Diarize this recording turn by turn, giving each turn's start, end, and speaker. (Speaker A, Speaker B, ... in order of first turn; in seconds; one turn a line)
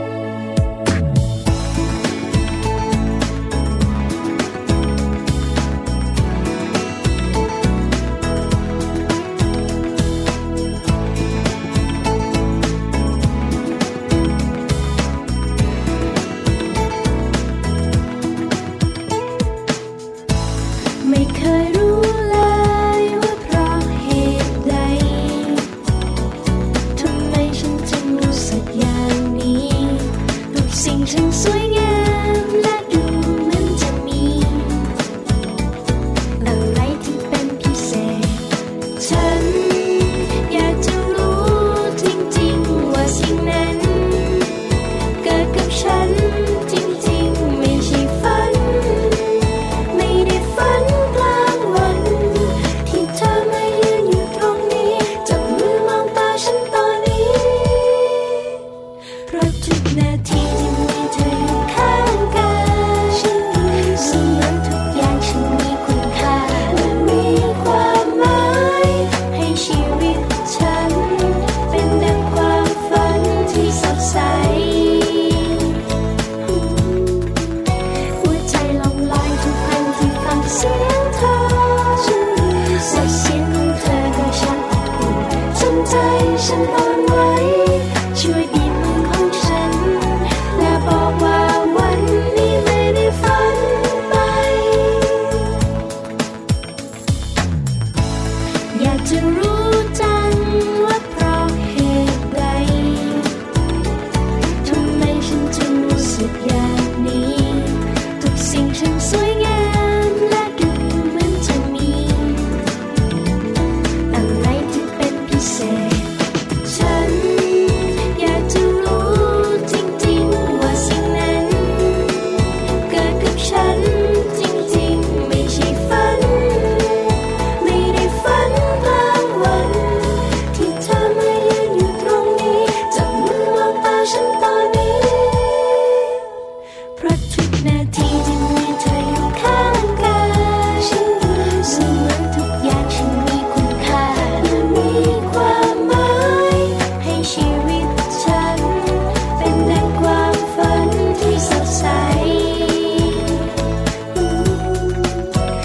Speaker A: 21.0-25.7
Speaker A: 26.9-34.9
Speaker A: 36.4-44.6
Speaker A: 45.2-58.6
Speaker A: 59.3-75.6
Speaker A: 76.4-77.5
Speaker A: 78.2-95.5
Speaker A: 98.7-103.4
Speaker A: 104.6-112.6
Speaker A: 114.1-116.1
Speaker A: 116.6-136.3
Speaker A: 136.9-153.3
Speaker A: 154.1-155.3